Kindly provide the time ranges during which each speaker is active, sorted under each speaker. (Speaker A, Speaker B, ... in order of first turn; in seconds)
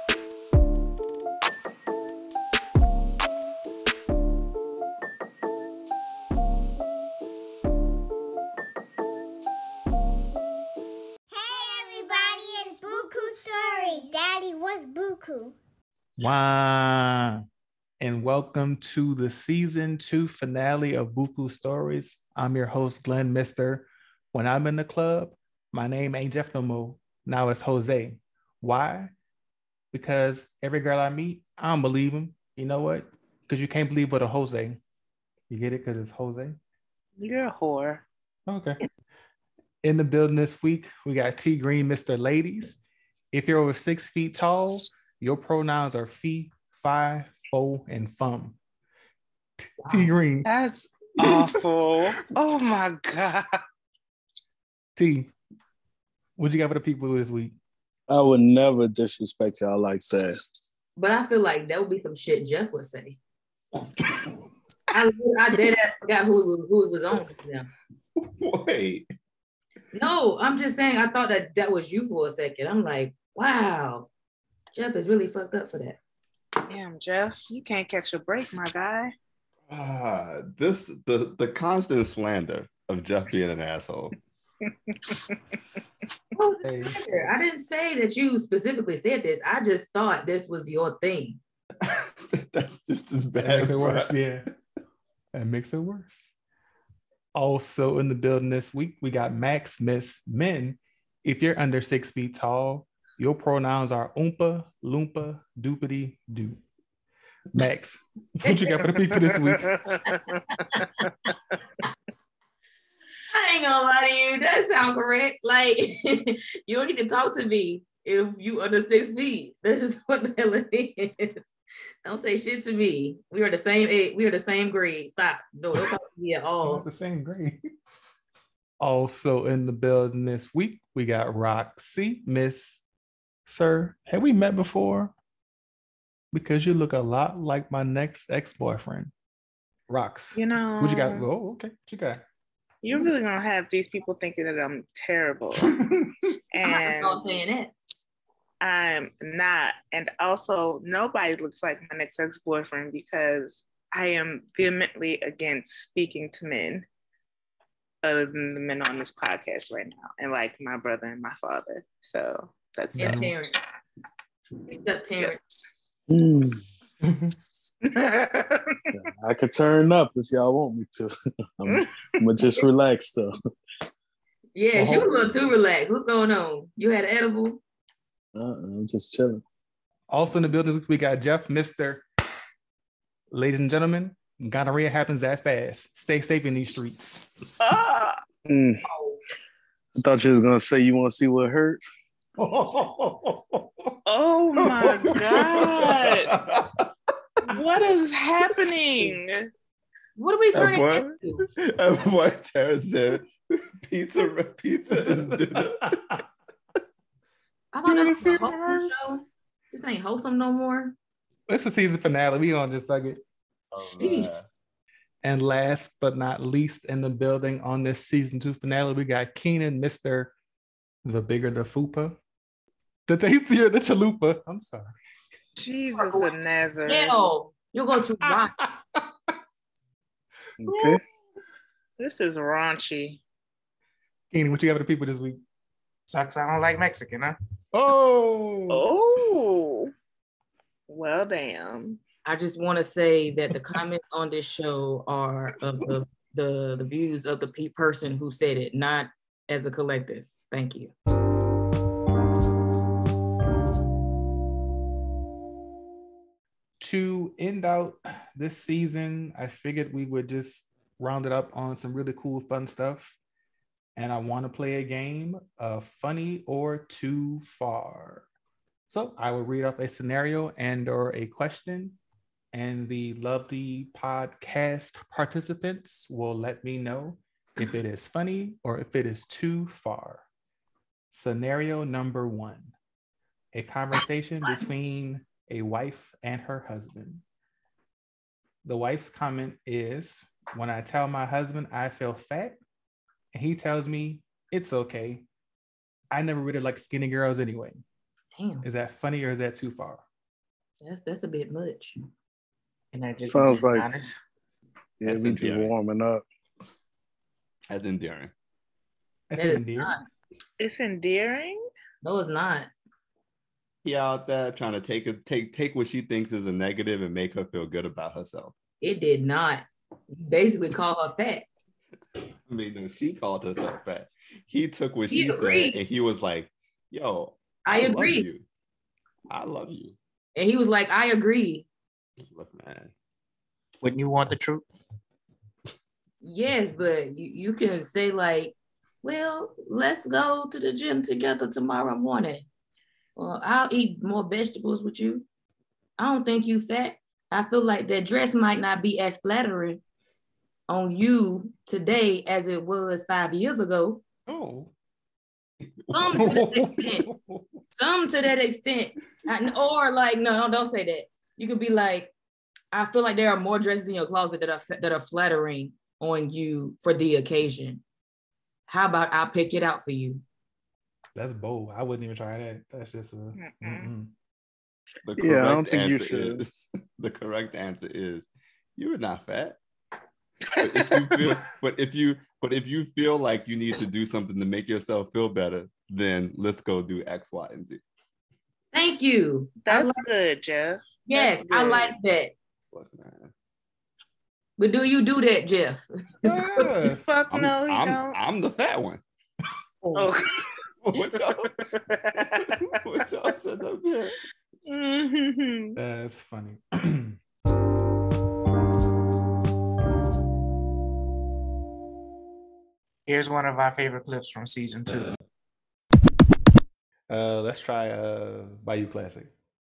Speaker A: 11.3-15.6
Speaker B: 16.2-17.4, 18.0-29.1, 29.9-34.8, 35.5-36.6, 38.5-38.8, 39.8-48.6, 49.6-50.5, 51.2-51.6, 55.0-55.3, 56.4-57.6, 86.7-87.0, 93.4-94.5, 95.3-96.3, 97.3-106.6, 107.5-109.9, 126.6-127.6, 128.8-132.8, 133.5-135.1, 136.3-139.1, 139.9-142.2, 145.6-146.1, 163.0-163.3, 167.0-167.3, 174.7-175.1, 180.1-182.0, 183.3-187.5, 192.4-194.0, 204.9-206.2, 207.8-209.1, 211.5-213.2, 215.2-220.3, 221.0-222.2, 223.1-225.0, 228.2-228.7, 234.3-235.4, 237.7-238.8, 256.8-263.2, 264.0-268.3, 268.9-272.0, 272.5-280.2, 281.1-282.7, 283.5-287.2, 288.6-292.6, 293.3-295.3, 296.1-297.8, 298.6-300.1, 309.3-310.0, 354.3-354.7, 356.1-357.2, 371.1-374.1, 396.2-397.0, 405.8-407.2, 417.1-419.3
Speaker C: 37.2-38.0, 50.5-53.6, 76.7-79.1, 109.3-110.4, 140.3-141.3, 142.8-145.7, 146.5-147.4, 148.6-156.8, 158.0-163.3, 167.8-168.8, 187.6-188.2, 194.1-196.3, 197.5-199.5, 225.6-227.3, 232.0-233.2, 238.7-239.9, 240.9-242.0, 310.6-311.6, 373.4-373.9, 389.7-392.0, 396.9-398.2, 399.9-400.4, 401.3-402.8, 404.7-405.8
Speaker D: 49.8-50.1, 61.0-63.2, 64.9-67.7, 69.9-74.1, 74.8-76.0, 86.4-91.4, 110.3-110.9, 113.3-121.5, 122.0-126.9, 146.6-147.7, 163.0-163.7, 164.7-165.4, 174.6-177.6, 200.2-201.5, 207.7-211.0, 213.9-214.3, 226.0-226.3, 226.9-228.7, 242.2-250.9, 298.4-298.7, 300.8-301.9, 309.4-310.1, 312.0-312.7, 318.8-321.5, 325.1-325.8, 327.7-328.3, 330.4-331.7, 336.2-342.5, 343.2-345.3, 346.0-349.8, 350.7-354.0, 355.9-357.1, 357.7-362.1, 362.7-367.8, 368.7-370.2, 388.7-390.0, 391.1-392.3, 394.6-396.7
Speaker E: 58.1-60.4, 166.1-166.6, 168.9-173.3, 178.3-179.4, 188.5-188.8, 190.0-191.8, 230.6-231.0, 303.2-303.9, 305.0-306.2, 375.2-376.4
Speaker F: 68.2-69.1, 79.7-84.1, 91.8-94.2, 195.8-196.9, 200.5-206.0, 213.7-214.4, 305.1-305.7, 307.7-308.3, 313.8-318.5, 322.5-328.4, 329.3-330.0, 332.2-332.9, 375.1-379.6, 380.6-387.8, 392.7-393.3, 397.3-399.0, 400.9-401.5, 402.7-404.1
Speaker G: 236.1-237.4, 302.9-304.2, 333.8-334.7, 413.1-415.1